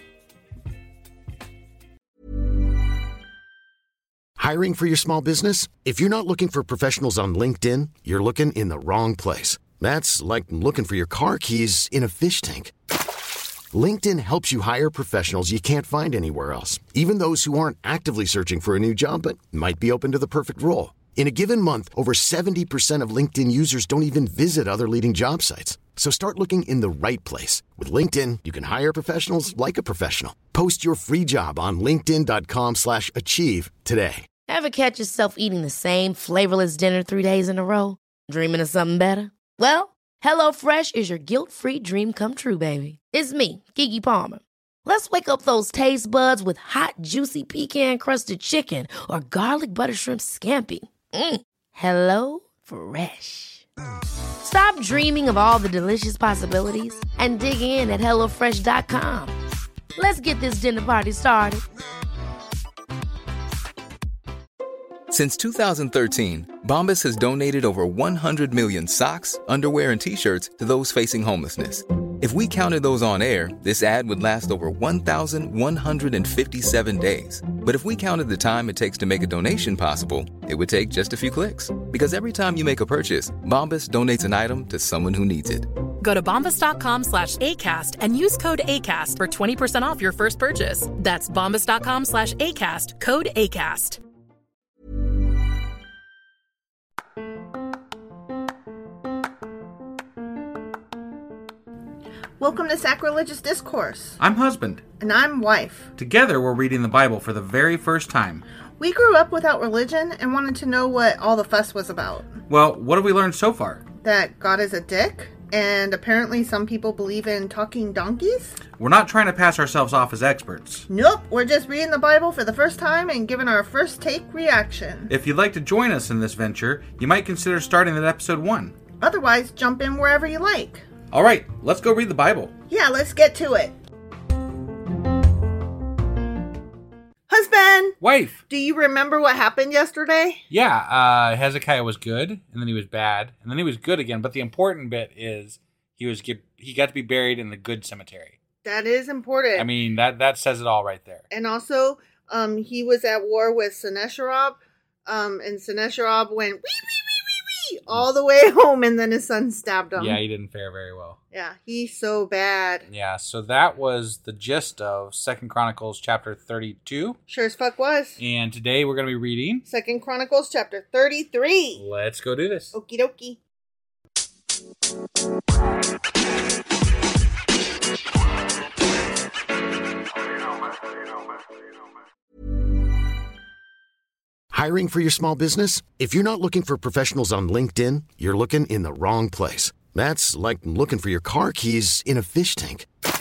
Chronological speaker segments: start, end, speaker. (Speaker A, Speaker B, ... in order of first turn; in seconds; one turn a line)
Speaker A: 4.4-12.7
Speaker A: 13.7-34.2
Speaker B: 34.5-53.6
Speaker B: 54.4-59.4
Speaker B: 60.0-61.6
Speaker C: 65.1-85.7
Speaker D: 86.0-94.0
Speaker E: 102.4-104.2
Speaker F: 104.2-104.8
Speaker E: 105.0-105.9
Speaker F: 106.0-108.4
Speaker E: 108.8-112.3
Speaker F: 112.5-113.8
Speaker E: 114.0-118.6
Speaker F: 118.8-120.9
Speaker E: 120.9-125.1
Speaker F: 125.1-128.8
Speaker E: 129.0-130.8
Speaker F: 131.1-132.5
Speaker E: 132.7-133.7
Speaker E: 137.3-138.0
Speaker F: 138.0-138.4
Speaker E: 138.5-140.4
Speaker F: 140.5-148.3
Speaker E: 148.6-149.7
Speaker F: 149.5-151.2
Speaker E: 151.3-160.2
Speaker F: 159.9-161.2
Speaker E: 161.3-162.9
Speaker F: 162.9-167.2
Speaker E: 167.3-168.2
Speaker F: 168.2-169.6
Speaker E: 169.6-171.8
Speaker F: 171.7-172.7
Speaker E: 172.7-173.4
Speaker A: 184.5-192.8